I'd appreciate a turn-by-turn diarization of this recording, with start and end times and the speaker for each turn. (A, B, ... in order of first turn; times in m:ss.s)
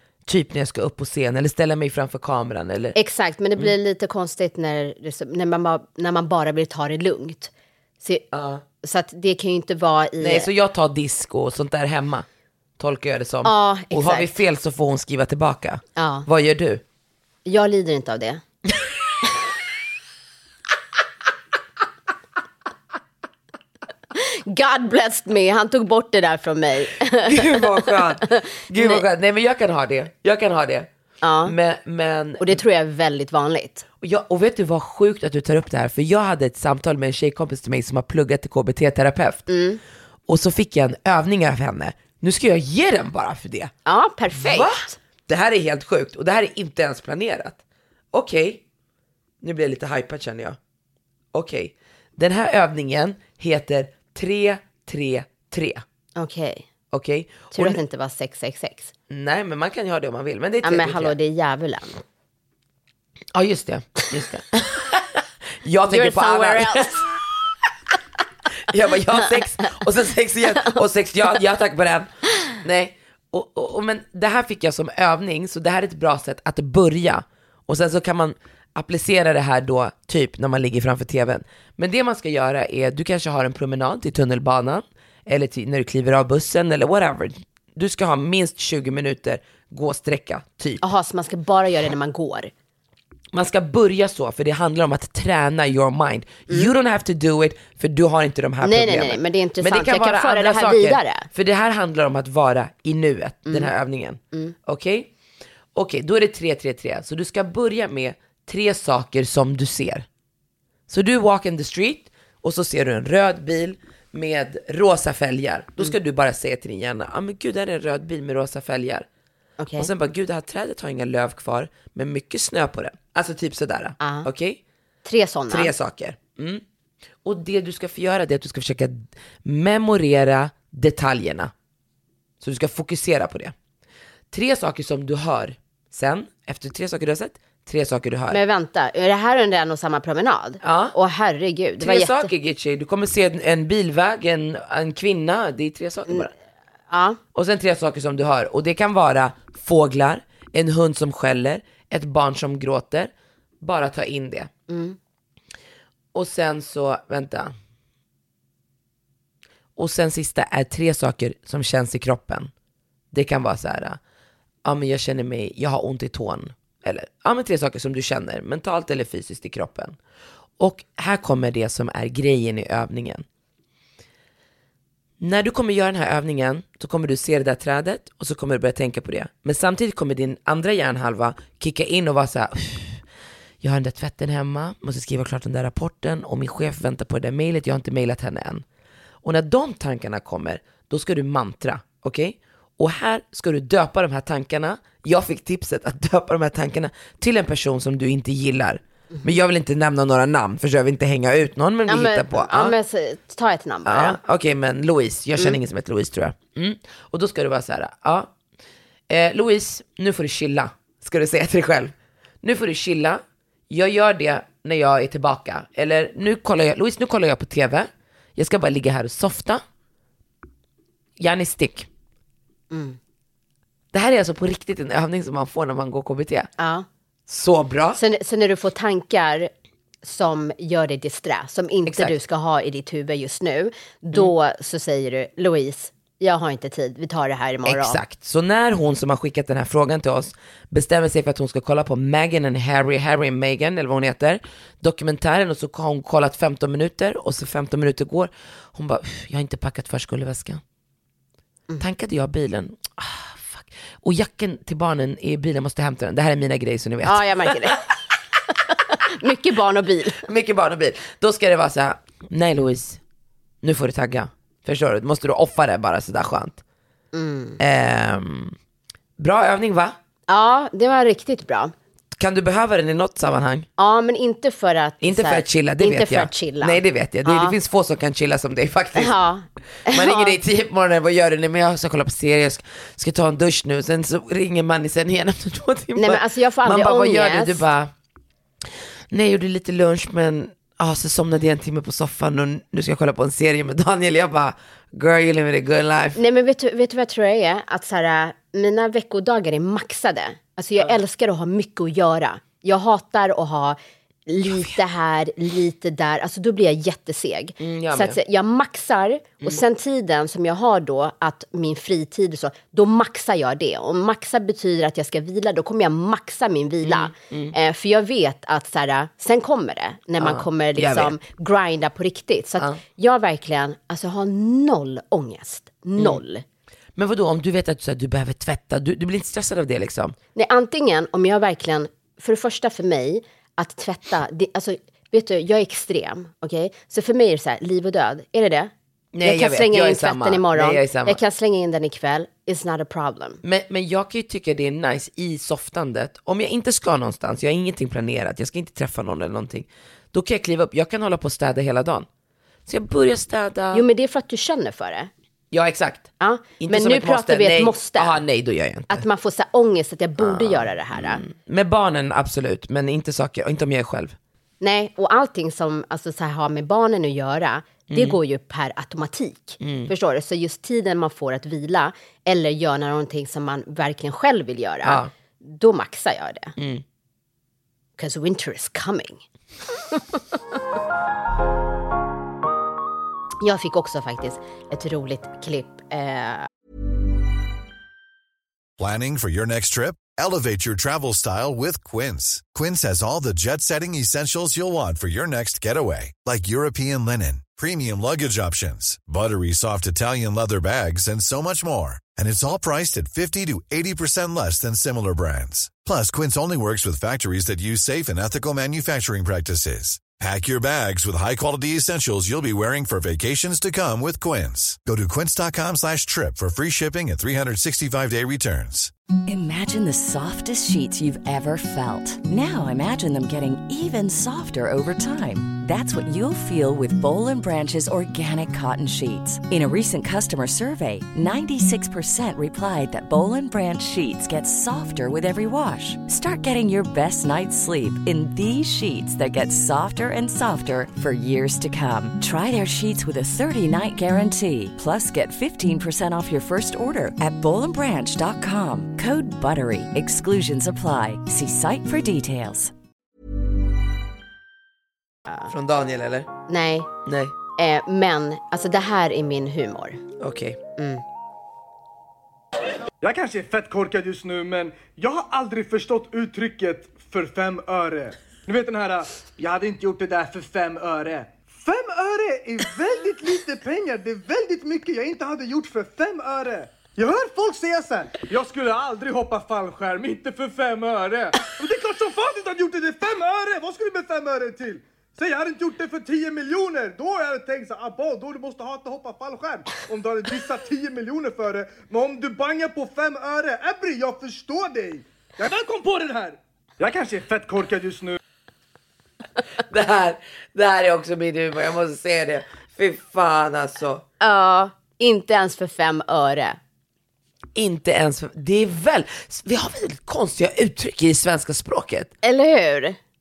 0:00.3-0:03.0 A
0:02.9-0:08.3 B
0:08.3-0:08.6 A
0:08.8-0:10.5 B
0:10.2-0:12.2 A
0:12.8-0:16.8 A
0:13.4-0:14.4 B
0:16.0-0:16.3 B
0:17.4-0:18.4 B
0:24.1-0:29.0 B
0:27.2-0:30.9 A
0:31.2-0:31.5 B
0:31.4-0:32.6 A
0:32.4-0:33.8 B
0:34.0-0:39.5 A
0:39.5-0:39.8 B
0:40.3-0:43.7 A
0:43.8-0:45.0 B
0:44.3-0:47.6 A
0:48.1-0:48.6 A
0:49.4-0:50.6 A
0:51.3-0:55.8 A
0:56.2-0:56.6 B
0:56.9-0:57.8 A
0:57.5-0:58.9 B
0:59.1-1:01.1 A
1:00.6-1:02.0 B
1:03.3-1:07.0 A
1:05.9-1:07.0 B
1:08.6-1:30.8 A
1:30.8-1:32.5 B
1:33.3-1:45.1 A
1:38.6-1:41.3 B
1:43.5-1:43.7 B
1:45.7-1:50.0 A
1:50.9-1:59.0 A
1:59.6-1:59.9 B
1:59.8-2:04.6 A
2:04.0-2:04.3 B
2:05.0-2:05.7 B
2:05.5-2:06.6 A
2:07.2-2:11.5 A
2:12.4-2:13.5 A
2:14.3-2:18.4 A
2:18.3-2:22.3 B
2:20.6-2:20.9 A
2:21.8-2:26.3 A
2:26.9-2:27.2 B
2:27.3-2:34.5 A
2:34.7-2:35.0 B
2:36.1-2:37.5 A
2:39.8-2:42.5 A
2:43.1-2:44.0 A
2:44.6-2:50.0 A
2:50.6-2:53.2 A
2:55.2-3:03.0 A
3:03.6-3:08.6 A
3:09.2-3:22.7 A
3:21.9-3:24.2 B
3:23.8-3:28.3 A
3:29.1-3:39.6 A
3:41.2-3:41.9 A
3:42.7-3:43.0 B
3:43.9-3:46.5 A
3:46.6-3:46.8 B
3:47.3-3:48.0 A
3:48.0-3:49.5 B
3:50.0-3:58.0 B
3:51.9-3:52.1 A
3:57.6-4:10.6 A
4:11.8-4:17.7 A
4:17.0-4:17.8 B
4:18.7-4:20.2 B
4:20.2-4:23.0 A
4:23.6-4:26.6 A
4:27.1-4:27.6 B
4:27.6-4:28.6 A
4:29.2-4:30.0 A
4:30.3-4:31.7 B
4:32.1-4:33.7 A
4:33.8-4:37.6 B
4:35.0-4:39.1 A
4:38.9-4:40.4 B
4:39.9-4:47.9 A
4:46.0-4:47.6 B
4:49.1-4:56.2 A
4:56.2-5:26.4 B
5:07.6-5:08.2 A
5:16.8-5:17.5 A
5:20.2-5:21.1 A
5:27.0-5:30.2 A
5:30.4-5:38.7 B
5:39.1-5:41.2 A
5:39.2-5:43.4 B
5:43.4-5:52.1 A
5:52.7-5:53.8 A
5:53.7-5:55.1 B
5:55.5-5:56.1 A
5:56.2-5:58.2 B
5:56.6-5:59.0 A
5:58.9-6:01.2 B
6:00.2-6:04.1 A
6:04.6-6:16.5 B
6:07.9-6:08.2 A
6:09.6-6:09.9 A
6:14.8-6:15.1 A
6:16.6-6:16.8 A
6:18.0-6:19.2 B
6:23.4-6:26.5 B
6:28.8-6:58.9 C
6:59.3-7:32.7 D
7:35.5-7:36.3 A
7:36.5-7:36.9 B
7:37.0-7:37.3 A
7:37.6-7:40.0 B
7:40.2-7:40.6 A
7:40.8-7:41.0 B
7:43.0-8:18.2 E
8:19.7-8:24.0 A
8:24.2-8:26.6 B
8:27.5-8:32.1 A
8:32.2-8:33.0 B